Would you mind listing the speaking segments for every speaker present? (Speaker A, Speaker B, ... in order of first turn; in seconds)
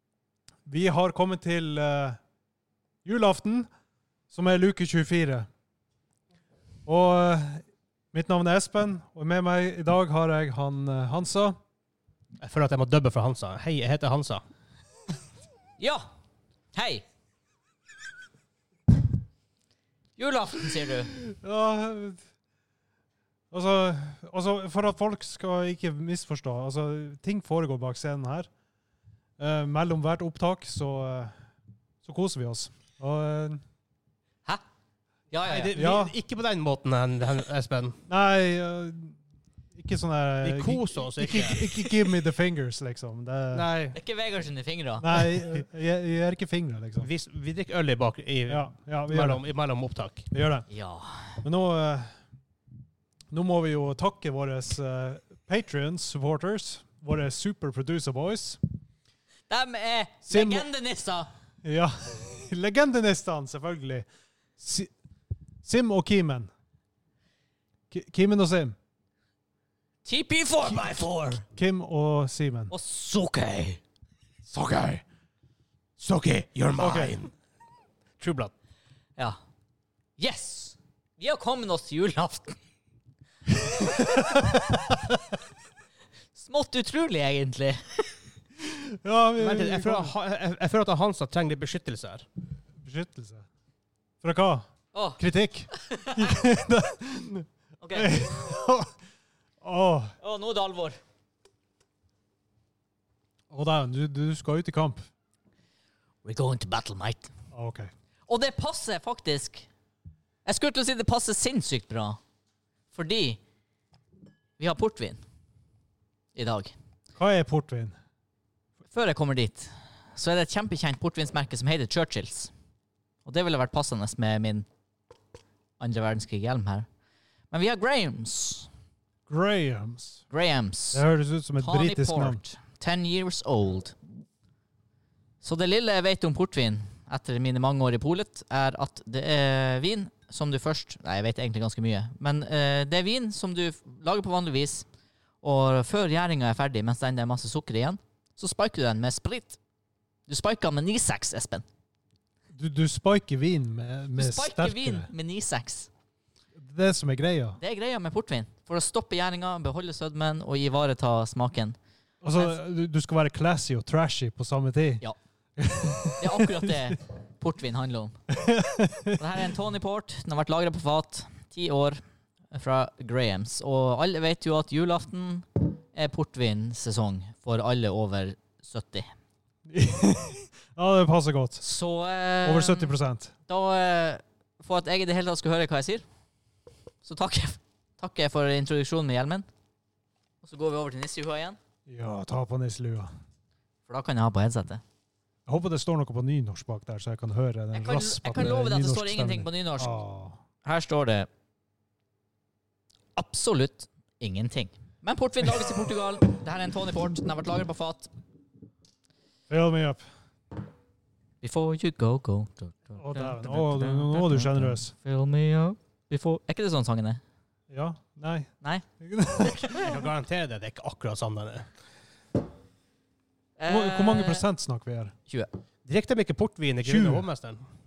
Speaker A: 0.7-2.1, 3.1-3.5, 4.5-5.2, 6.8-7.6, 8.2-11.5, 21.1-22.2, 23.5-28.4, 29.4-31.3, 32.0-33.6, 35.7-36.1, 38.1-39.1, 39.7-43.7, 45.0-47.0, 48.5-49.4, 51.4-52.1, 53.3-58.6, 60.2-60.6, 61.6-64.0, 64.6-64.9, 65.6-66.5, 67.9-68.7, 71.5-72.7, 74.5-75.0, 76.8-77.2, 83.9-84.8, 88.6-90.1, 92.8-93.4, 94.2-94.7, 95.2-98.9, 99.6-100.1, 103.5-105.0, 107.5-107.9, 117.2-117.9, 129.3-130.2, 130.9-132.4, 152.5-155.1, 156.6-157.6, 162.2-165.0, 165.6-166.8, 168.3-169.2, 179.7-181.6, 182.4-183.3, 191.9-193.1, 195.5-200.4, 209.5-210.0, 213.1-214.9, 217.7-218.5, 219.0-219.9, 223.7-225.1, 226.8-227.2
Speaker B: 4.3-5.4, 12.4-14.4, 35.4-38.1, 40.4-42.1, 43.5-44.0, 47.0-50.4, 76.0-77.3, 78.2-78.5, 89.4-92.3, 213.0-213.5, 219.7-221.7, 225.8-227.6
Speaker C: 15.8-16.0, 16.7-17.0, 20.2-21.1, 35.3-35.7, 43.9-45.4, 50.7-51.4, 59.5-61.3, 70.0-71.4, 72.7-73.8, 80.2-82.5, 84.0-84.3, 86.3-88.1, 94.9-96.3, 97.8-98.2, 100.2-101.0, 106.2-107.3, 108.3-109.7, 110.4-112.2, 112.9-113.4, 114.6-115.2, 116.3-116.7, 118.9-122.5, 123.2-124.7, 125.8-126.8, 127.5-128.7, 130.3-131.0, 131.6-134.0, 135.4-144.8, 145.4-149.6, 150.3-151.6, 154.1-155.9, 157.6-161.8, 166.2-168.1, 169.2-172.0, 172.5-179.1, 181.6-182.9, 183.5-186.0, 187.0-189.5, 190.4-191.6, 193.9-194.8, 197.7-200.0, 200.6-201.3, 203.2-208.1, 211.4-217.2, 219.4-219.8, 223.6-224.4